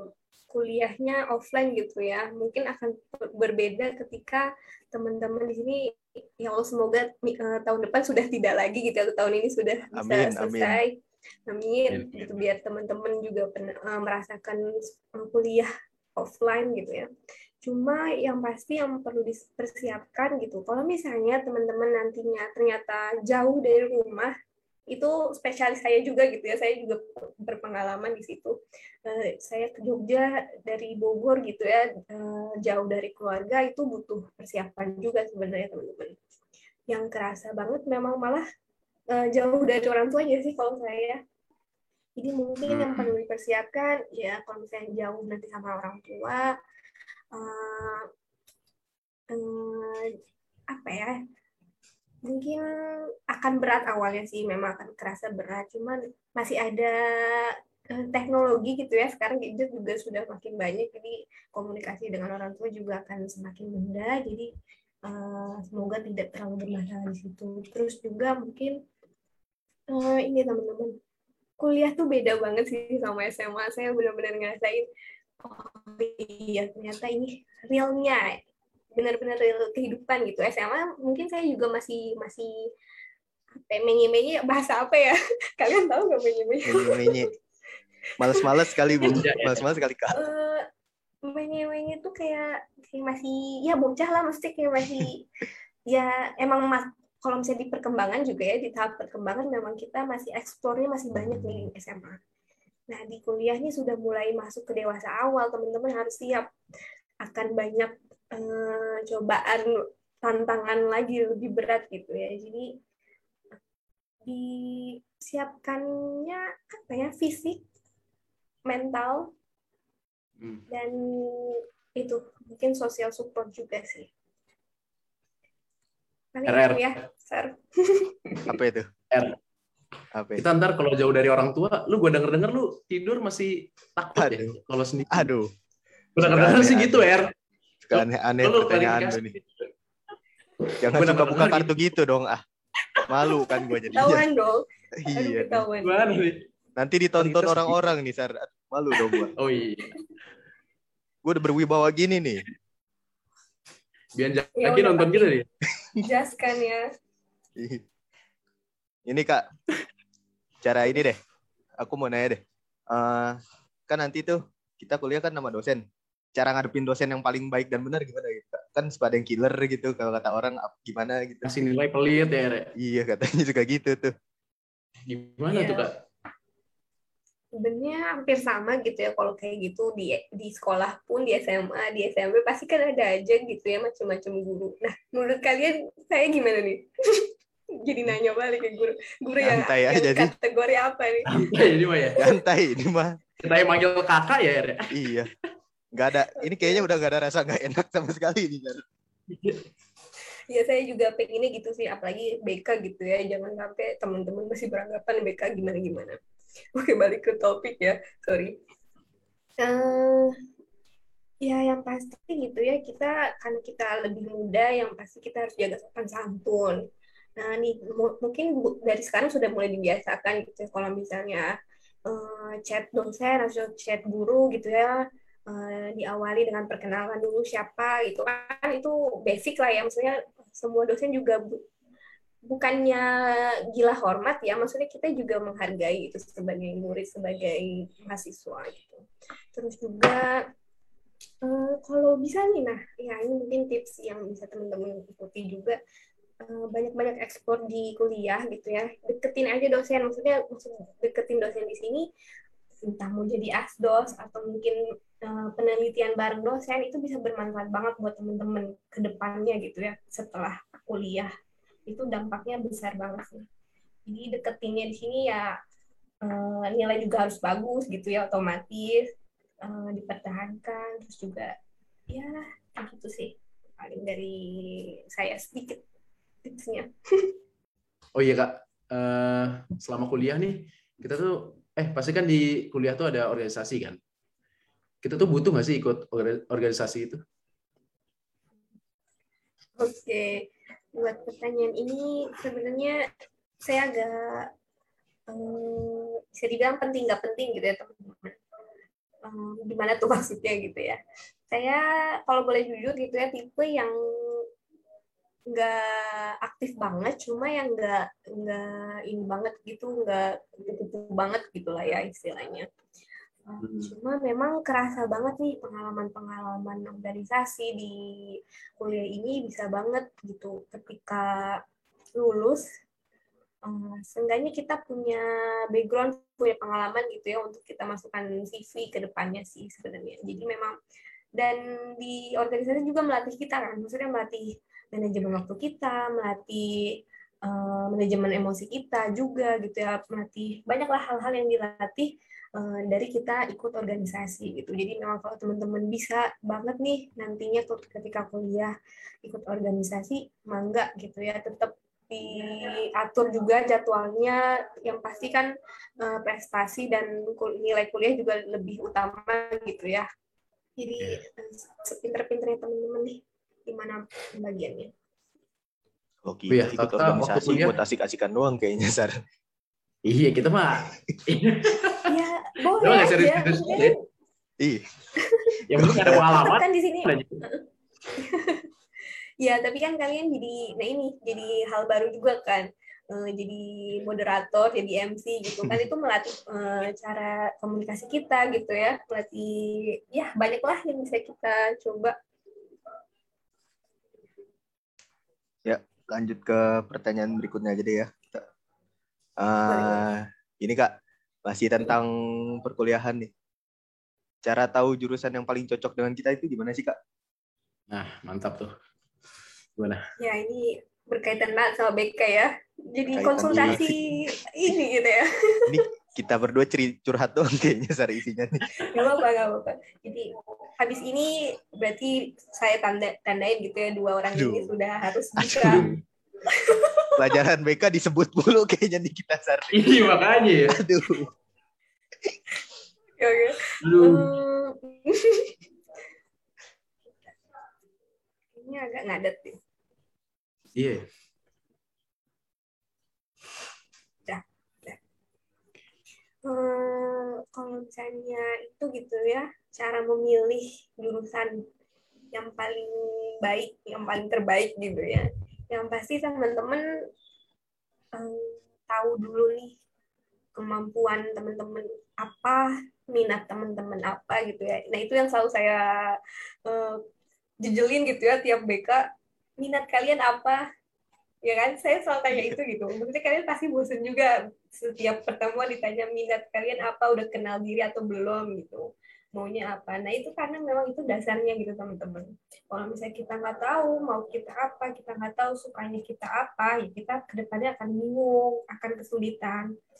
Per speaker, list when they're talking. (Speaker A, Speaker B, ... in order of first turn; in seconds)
Speaker A: 0.5-10.9, 11.5-14.6, 15.1-17.1, 17.6-24.3, 24.9-28.5, 29.1-36.1, 36.9-38.4, 39.1-41.2, 42.2-46.5, 47.3-48.0, 49.3-50.1, 50.7-51.1, 52.2-52.7, 53.3-64.5, 65.1-68.8, 69.9-70.9, 71.6-74.9, 75.4-78.3, 79.0-82.7, 83.5-87.2, 90.1-90.6, 91.2-95.2, 95.9-102.2, 102.9-106.5, 107.2-109.7, 110.2-112.7, 114.2-117.6, 118.7-119.3, 120.7-124.1, 126.3-128.5, 143.9-146.0, 154.6-155.3, 156.0-156.8, 175.5-175.9, 177.6-187.3, 187.8-191.4, 200.5-206.2, 206.8-208.5, 209.6-210.3, 211.4-216.8, 217.4-221.5, 222.1-225.0, 225.5-231.6, 232.5-233.1, 233.7-239.0, 239.5-240.3, 241.4-245.8, 246.4-252.0, 252.8-261.3, 261.9-263.4, 264.1-265.5, 266.2-269.1, 269.6-271.5, 272.1-275.8, 276.4-277.3, 289.8-293.0, 293.6-294.5, 295.3-298.4, 299.2-301.0, 301.5-304.4, 305.5-312.7, 313.5-318.0, 318.8-321.6, 322.2-322.6, 323.6-330.7, 331.4-336.7, 337.4-348.7, 349.2-360.1, 360.8-364.9, 372.1-373.9, 375.2-375.6, 376.2-377.6, 378.2-378.6, 379.4-392.1, 399.7-400.0, 410.2-415.6, 418.8-425.8, 426.5-427.1, 433.2-435.6, 438.6-439.6, 444.3-445.0, 446.4-451.5, 452.3-456.8, 458.1-459.8, 460.5-466.1, 466.7-467.0, 467.6-469.0, 469.6-470.6, 471.4-489.7
Speaker B: 9.9-10.8, 86.6-87.3, 88.2-90.2, 128.5-128.9, 130.1-130.4, 134.2-134.6, 135.1-135.5, 136.2-137.1, 137.9-139.3, 140.8-142.4, 143.0-144.3, 145.0-145.6, 146.8-149.3, 151.2-152.4, 157.6-157.8, 159.1-159.4, 160.6-161.2, 161.8-165.8, 166.3-171.6, 172.8-174.1, 189.4-190.3, 192.2-193.2, 194.9-195.3, 195.9-198.8, 366.2-369.1, 375.7-376.4, 395.6-398.4, 399.4-400.9, 401.4-403.3, 404.4-407.0, 413.1-413.9, 415.7-418.6, 424.4-424.7, 425.4-425.9, 427.2-431.3, 472.3-472.6
Speaker C: 11.9-12.4, 42.6-43.1, 88.9-89.7, 126.5-127.0, 129.1-129.4, 130.4-135.3, 136.2-137.3, 137.9-139.7, 140.7-141.7, 142.9-143.6, 145.8-146.4, 147.2-147.8, 149.1-150.0, 154.2-155.5, 171.4-172.7, 175.1-175.9, 191.3-192.2, 193.4-195.3, 199.3-199.6, 278.1-284.0, 285.0-287.2, 313.6-313.9, 366.5-367.8, 370.0-372.1, 372.8-373.9, 375.7-377.4, 407.9-408.7, 409.8-410.1, 425.6-426.0, 429.7-430.8, 433.8-434.3, 440.7-441.1